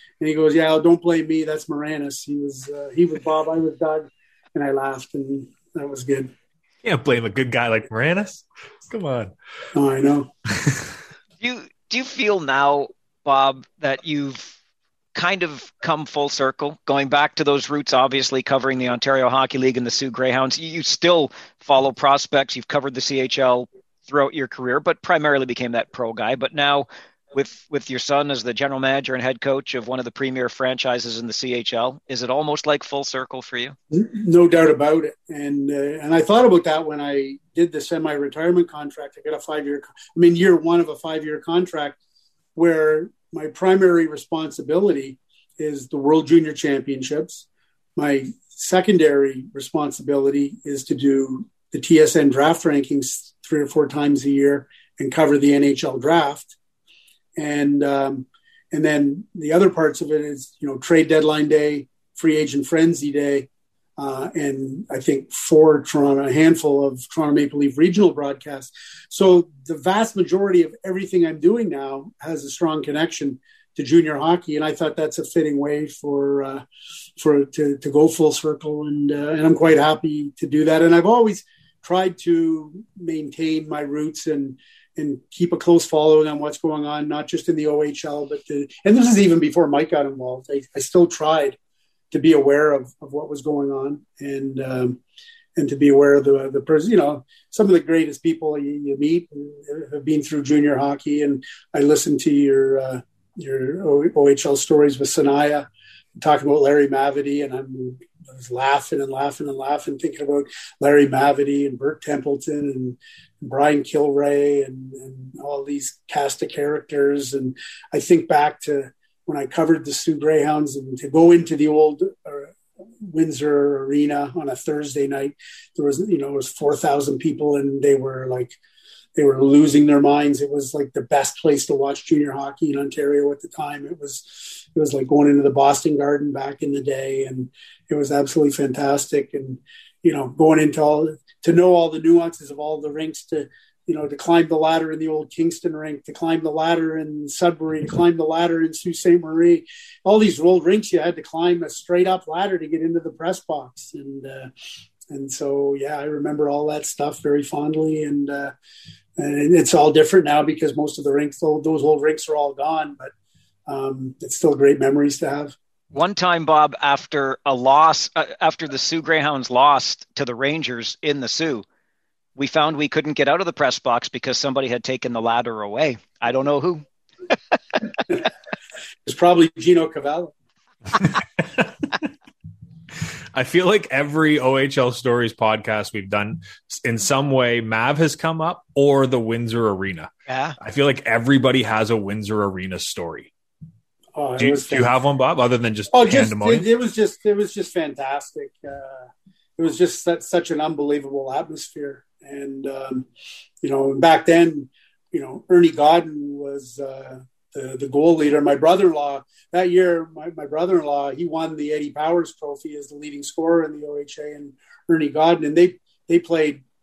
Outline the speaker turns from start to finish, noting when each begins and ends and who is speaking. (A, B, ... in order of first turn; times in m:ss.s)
0:00.2-0:06.3 A
0:06.8-0:09.3 B
0:09.7-0:10.3 A
0:10.6-0:10.9 B
0:11.4-0:14.5 C
0:15.1-0:33.8 C
0:33.9-0:42.0 A
0:42.5-0:56.5 A
0:57.4-1:16.6 A
1:17.2-1:31.6 A
1:32.1-1:35.0 A
1:35.6-2:08.6 A
2:09.2-2:34.5 A
2:35.1-2:38.5 A
2:39.2-2:43.1 A
2:43.7-2:45.5 A
2:45.9-2:51.6 C
2:52.4-2:56.8 C
2:59.0-3:00.3 A
3:03.3-3:13.3 B
3:10.3-3:10.6 C
3:14.1-3:14.8 A
3:14.4-3:16.6 B
3:15.9-3:19.1 A
3:19.6-3:23.1 A
3:23.6-3:36.6 A